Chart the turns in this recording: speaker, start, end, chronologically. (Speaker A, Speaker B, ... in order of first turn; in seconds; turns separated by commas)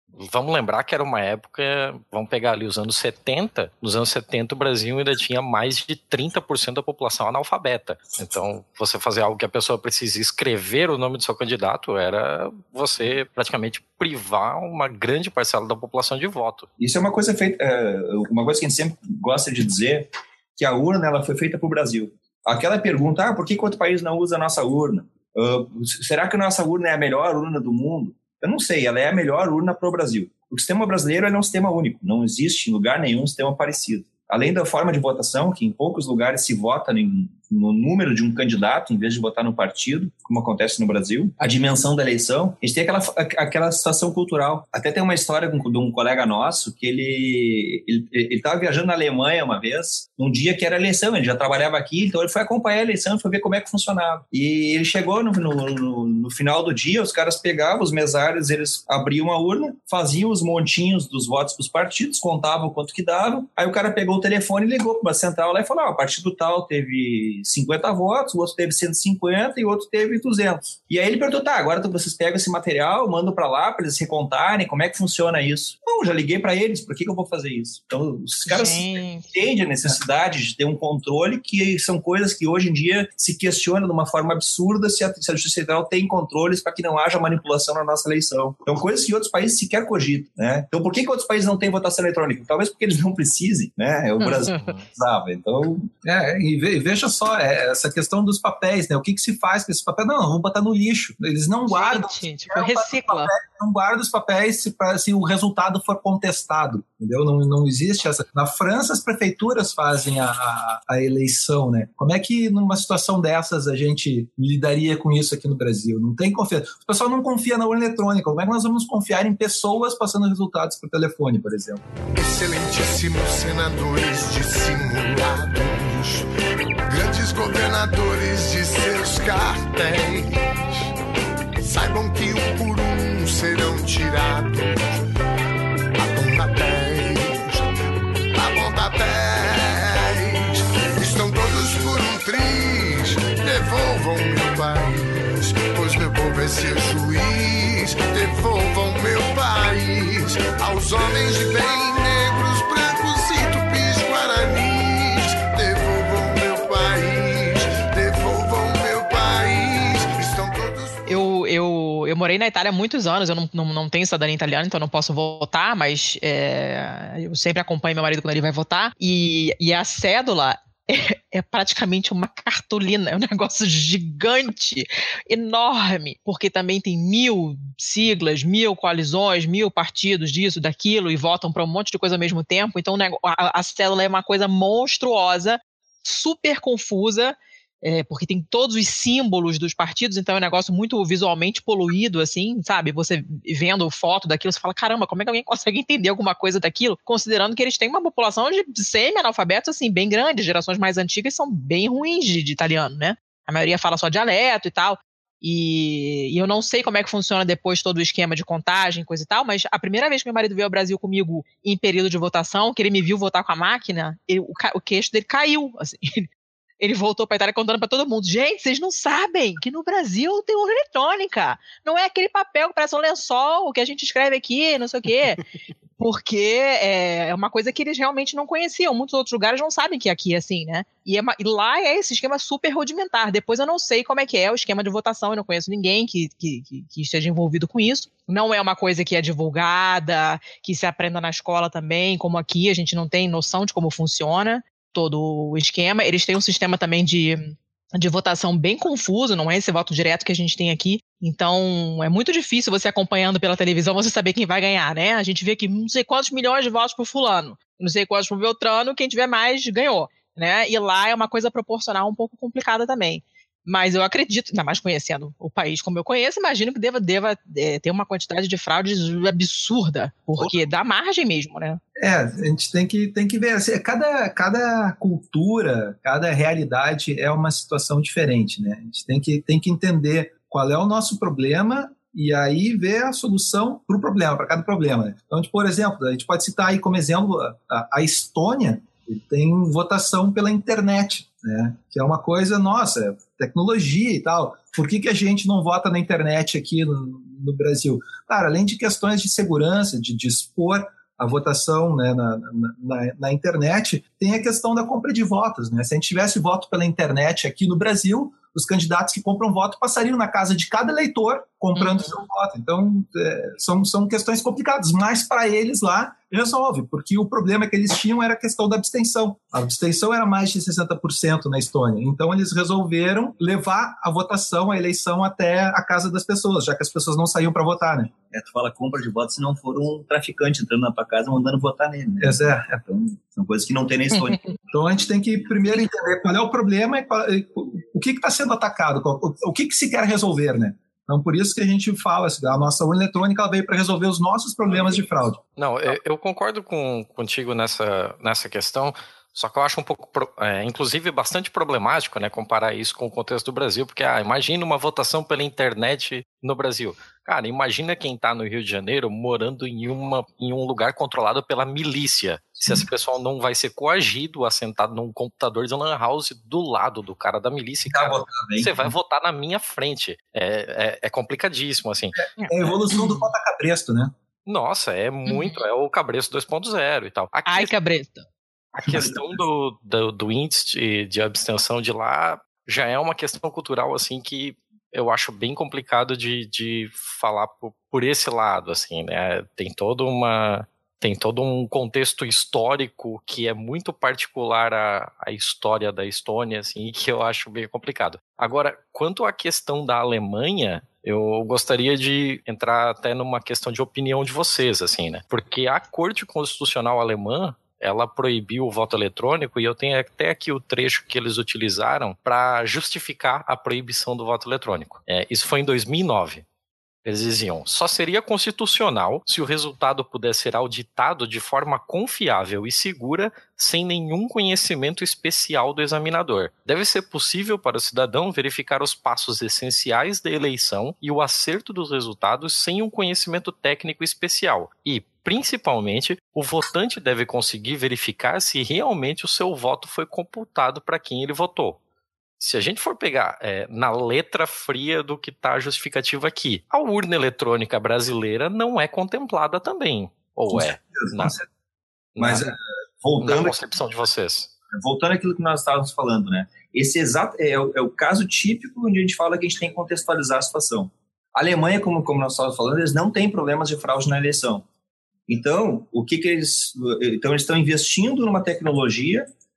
Speaker A: 0.2-16.7, Speaker B: 16.8-95.9, Speaker C: 78.5-79.3, Speaker C: 94.2-94.7, Speaker A: 94.6-94.9, Speaker D: 96.0-121.8, Speaker C: 101.7-103.3, Speaker E: 122.2-126.3, Speaker E: 126.9-130.4, Speaker E: 131.6-135.0, Speaker E: 136.0-137.6, Speaker E: 138.3-161.1, Speaker C: 161.1-216.3, Speaker C: 216.8-225.4, Speaker C: 226.0-271.8, Speaker D: 272.0-328.1, Speaker B: 328.3-334.4, Speaker D: 332.2-332.9, Speaker D: 334.7-345.4, Speaker A: 345.6-372.3, Speaker B: 367.9-368.9, Speaker C: 372.4-373.2, Speaker D: 372.5-374.1, Speaker A: 374.5-377.7, Speaker C: 375.3-375.6, Speaker C: 377.5-378.3, Speaker A: 378.7-416.4, Speaker A: 417.1-441.8, Speaker A: 442.4-451.4, Speaker B: 450.5-451.4, Speaker A: 452.2-452.5, Speaker B: 452.2-453.6, Speaker A: 453.2-454.5, Speaker B: 454.7-464.6, Speaker B: 465.3-469.3